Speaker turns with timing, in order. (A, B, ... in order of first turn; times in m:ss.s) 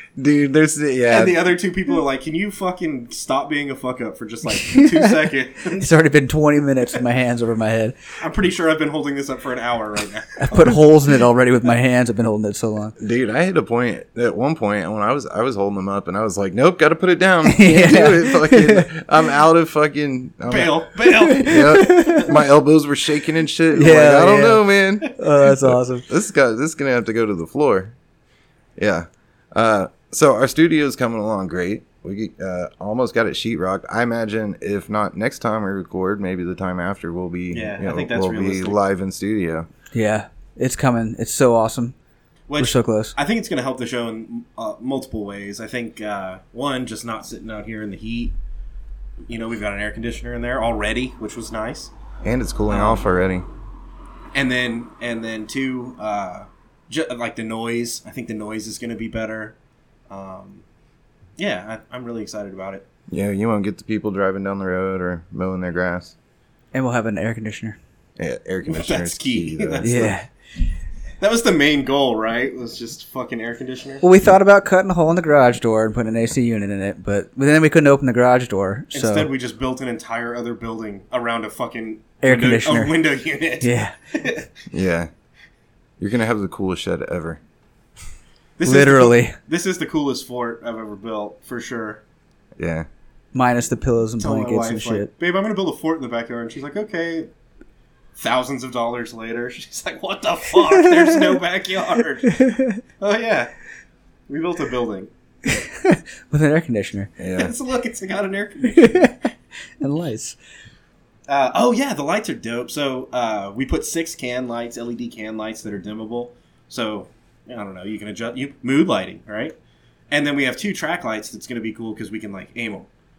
0:00.2-0:01.4 A
0:01.1-0:05.9 B
0:05.8-0:07.9 C
0:08.2-0:11.2 B
0:10.4-0:12.9 C
0:13.0-0:27.9 A
0:17.4-0:18.9 C
0:20.5-0:22.3 B
0:21.2-0:22.3 C
0:23.7-0:26.1 C
0:28.8-0:39.7 A
0:37.5-0:38.8 B
0:39.9-0:41.9 C
0:42.5-0:48.3 B
0:42.6-0:43.2 C
0:49.3-0:51.9 B
0:52.2-0:53.4 A
0:52.7-0:53.1 B
0:54.3-0:59.6 B
1:00.1-1:00.6 B
1:01.4-1:02.9 B
1:03.1-1:06.1 A
1:06.7-1:07.8 C
1:08.2-1:10.1 A
1:08.6-1:10.2 B
1:09.8-1:10.3 C
1:11.2-1:14.0 B
1:14.0-1:19.3 C
1:18.9-1:24.6 B
1:22.2-1:23.0 C
1:23.6-1:23.9 C
1:24.7-1:25.1 A
1:26.0-1:27.4 A
1:28.6-1:32.0 B
1:28.6-1:29.4 C
1:32.6-1:32.9 A
1:33.3-1:35.1 C
1:34.2-1:37.3 B
1:38.2-1:42.4 B
1:40.9-1:41.3 C
1:42.2-1:42.8 C
1:43.0-1:43.5 B
1:44.3-1:45.1 B
1:45.5-1:47.1 C
1:47.2-1:47.5 A
1:47.3-1:49.1 B
1:48.7-1:49.2 C
1:49.8-1:50.4 C
1:51.3-1:59.6 B
2:00.1-2:02.9 B